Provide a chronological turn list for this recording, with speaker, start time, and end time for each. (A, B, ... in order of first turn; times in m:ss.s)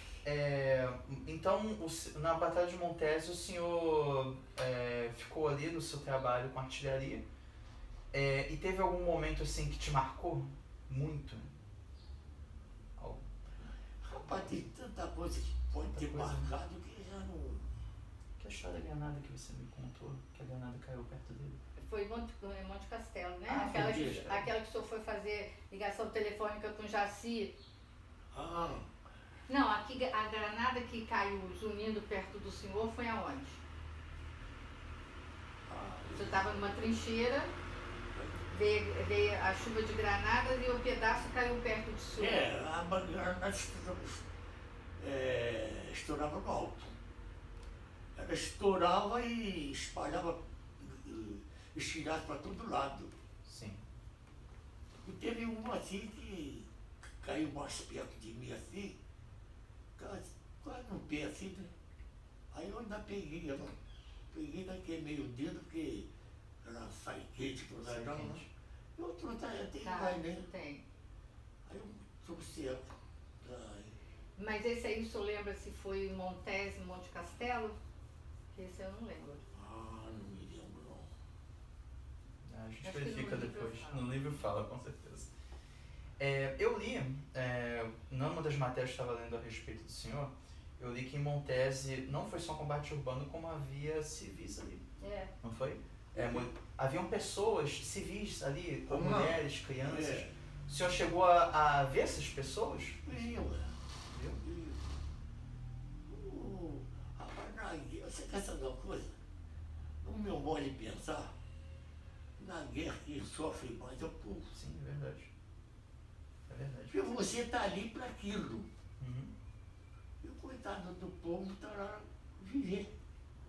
0:00.2-0:07.2 A
0:08.1-0:11.5 A
0:13.0-0:14.6 A
0:14.0-0:17.7 B
0:15.9-0:16.5 A
0:18.4-0:21.6 A
0:21.8-0:27.6 C
0:23.5-0:24.5 A
0:23.7-0:24.3 B
0:28.3-0:28.9 B
0:29.5-0:33.6 C
0:35.7-0:36.5 B
0:36.1-0:37.5 C
0:38.1-0:38.4 B
0:38.5-0:42.4 C
0:42.2-0:44.2 B
0:45.0-0:47.0 B
0:48.2-0:53.1 B
0:53.4-0:53.8 A
0:55.0-0:59.0 B
1:00.0-1:01.7 B
1:02.5-1:03.8 B
1:04.3-1:06.1 B
1:06.6-1:08.4 B
1:07.8-1:08.5 A
1:09.0-1:10.5 B
1:09.8-1:10.8 C
1:11.7-1:14.0 B
1:14.4-1:17.8 C
1:18.5-1:19.4 C
1:19.5-1:21.1 B
1:22.4-1:25.3 A
1:22.8-1:24.3 C
1:26.2-1:34.9 A
1:35.0-1:35.3 C
1:35.4-1:43.3 A
1:36.1-1:36.5 B
1:38.9-1:40.3 B
1:43.0-1:43.8 B
1:44.1-1:44.4 A
1:44.3-1:44.9 B
1:46.1-1:49.2 B
1:50.0-1:51.4 B
1:52.4-1:54.6 B
1:54.5-1:55.3 A
1:56.5-1:57.2 A
1:56.9-1:58.7 B
1:59.0-1:59.3 A
2:00.2-2:02.9 B